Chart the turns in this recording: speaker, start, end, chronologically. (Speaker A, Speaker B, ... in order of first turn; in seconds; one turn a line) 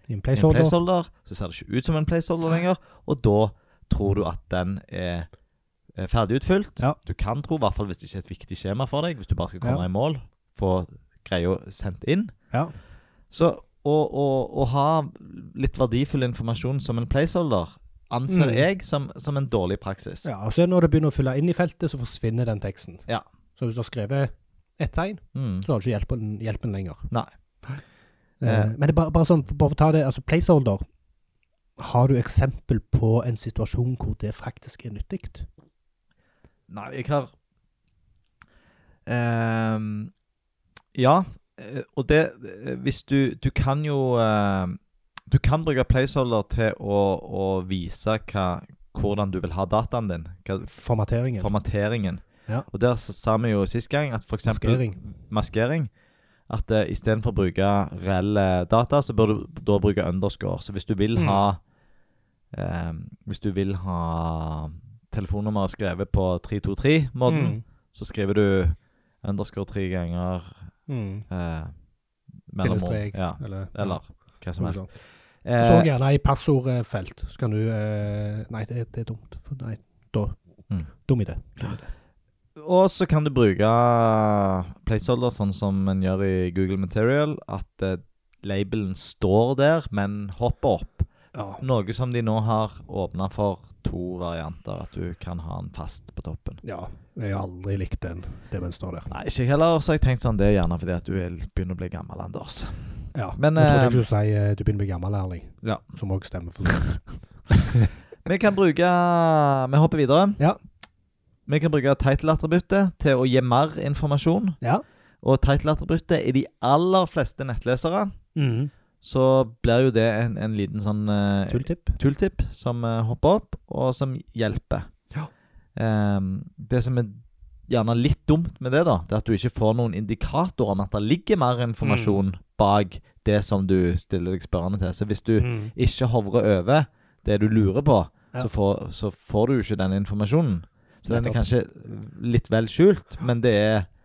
Speaker A: 0.1-0.8
Speaker B: 0.3-5.3
Speaker B: 6.0-12.3
Speaker B: 13.3-20.3
Speaker A: 18.3-18.6
Speaker A: 20.2-23.0
Speaker A: 23.6-27.1
Speaker B: 25.4-25.7
Speaker A: 28.4-30.8
Speaker B: 28.4-28.7
Speaker A: 31.8-35.5
Speaker B: 36.7-37.3
Speaker B: 39.1-40.1
Speaker B: 41.0-44.8
Speaker B: 45.3-50.7
Speaker A: 50.7-51.5
Speaker B: 51.4-55.9
Speaker A: 54.5-55.0
Speaker B: 56.5-61.6
Speaker A: 61.2-61.4
Speaker B: 62.5-70.7
Speaker A: 67.3-67.6
Speaker A: 70.9-71.2
Speaker B: 71.3-71.7
Speaker B: 72.5-74.8
Speaker A: 72.6-74.0
Speaker A: 74.6-74.9
Speaker B: 75.4-75.9
Speaker A: 75.6-80.4
Speaker A: 81.0-81.9
Speaker B: 82.6-91.1
Speaker A: 91.3-91.6
Speaker B: 91.6-96.6
Speaker A: 96.6-99.1
Speaker B: 99.1-104.0
Speaker A: 103.2-107.9
Speaker B: 108.2-110.4
Speaker B: 111.5-114.6
Speaker B: 115.2-118.2
Speaker A: 118.4-118.7
Speaker B: 119.0-124.9
Speaker A: 121.5-122.0
Speaker B: 125.8-143.9
Speaker A: 131.8-132.2
Speaker A: 135.4-135.7
Speaker A: 141.1-141.4